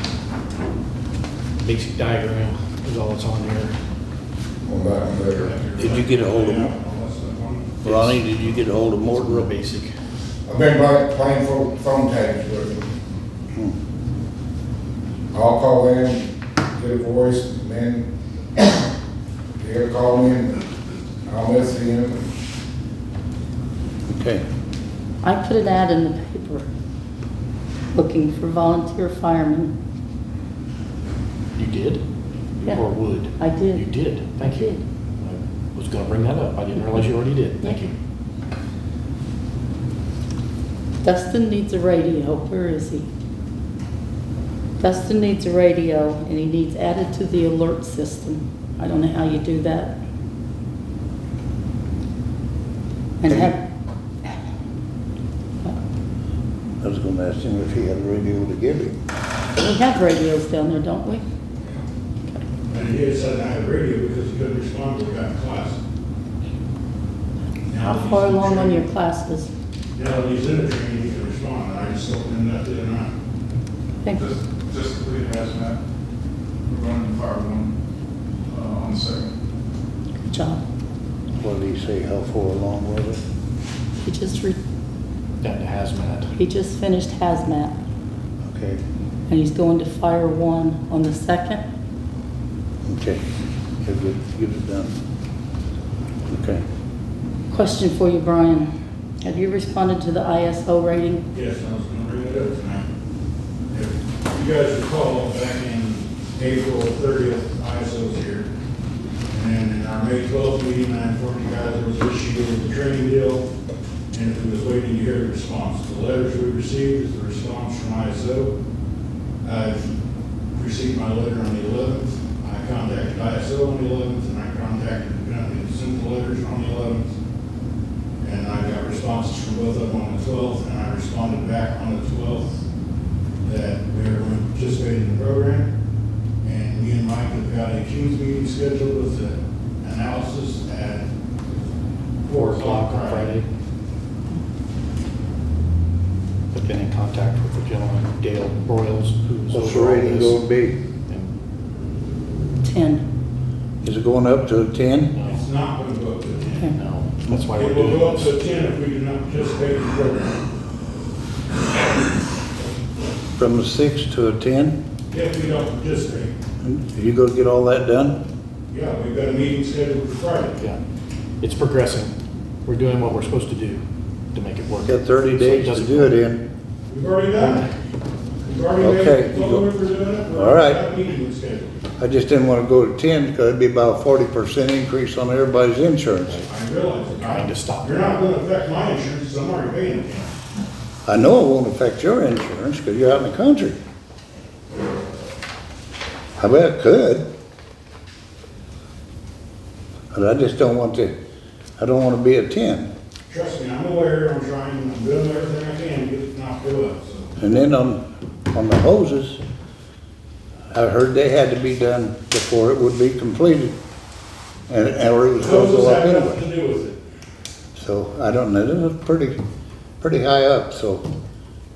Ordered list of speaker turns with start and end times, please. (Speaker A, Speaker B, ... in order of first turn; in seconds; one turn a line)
Speaker A: 1.6-3.7
Speaker B: 4.7-5.5
Speaker C: 4.8-7.8
Speaker D: 5.8-6.7
Speaker D: 7.8-9.5
Speaker A: 7.8-8.3
Speaker A: 9.0-9.9
Speaker B: 10.5-12.9
Speaker B: 15.3-18.9
Speaker B: 19.6-20.6
Speaker B: 21.3-22.2
Speaker D: 24.1-24.4
Speaker E: 25.2-26.7
Speaker E: 27.9-29.7
Speaker A: 31.6-32.0
Speaker A: 32.6-37.9
Speaker E: 33.4-34.8
Speaker E: 37.6-37.9
Speaker E: 41.0-43.1
Speaker E: 44.8-50.0
Speaker E: 53.2-53.6
Speaker D: 53.3-53.5
Speaker D: 56.8-59.0
Speaker E: 59.6-61.2
Speaker C: 62.7-65.8
Speaker C: 67.7-68.8
Speaker E: 67.8-69.5
Speaker C: 70.0-73.1
Speaker F: 74.2-75.8
Speaker F: 76.7-77.7
Speaker F: 78.5-79.3
Speaker E: 80.2-80.6
Speaker D: 81.4-83.2
Speaker E: 84.0-84.6
Speaker A: 85.4-86.3
Speaker E: 86.3-87.8
Speaker D: 88.5-88.8
Speaker E: 89.3-91.6
Speaker D: 92.9-93.2
Speaker D: 93.8-95.0
Speaker D: 96.3-96.6
Speaker E: 97.5-98.7
Speaker E: 99.2-101.2
Speaker C: 101.3-102.9
Speaker C: 103.7-108.5
Speaker C: 109.3-113.5
Speaker C: 114.1-118.5
Speaker C: 119.4-119.9
Speaker C: 120.5-127.2
Speaker C: 128.2-132.6
Speaker C: 133.4-135.7
Speaker C: 136.4-141.1
Speaker C: 142.2-143.4
Speaker A: 142.3-143.5
Speaker A: 146.5-150.4
Speaker D: 149.5-150.8
Speaker E: 152.6-153.0
Speaker D: 153.8-155.1
Speaker A: 155.2-155.4
Speaker C: 155.2-156.7
Speaker A: 156.8-158.3
Speaker C: 157.5-160.4
Speaker D: 163.4-164.8
Speaker C: 165.1-166.3
Speaker D: 166.6-168.2
Speaker C: 168.7-170.6
Speaker A: 171.4-172.1
Speaker A: 172.7-173.8
Speaker A: 174.3-176.1
Speaker D: 174.8-176.4
Speaker C: 176.9-177.7
Speaker C: 178.4-181.8
Speaker D: 178.8-179.7
Speaker D: 180.3-180.8
Speaker D: 182.0-186.4
Speaker C: 186.5-190.3
Speaker A: 187.1-188.0
Speaker D: 191.1-193.8
Speaker D: 196.4-197.2
Speaker D: 200.1-201.1
Speaker D: 201.8-202.9
Speaker C: 203.3-207.3
Speaker D: 207.4-209.4
Speaker D: 210.7-213.8
Speaker D: 214.7-216.4
Speaker C: 215.4-217.0
Speaker D: 217.8-219.4
Speaker D: 220.0-221.1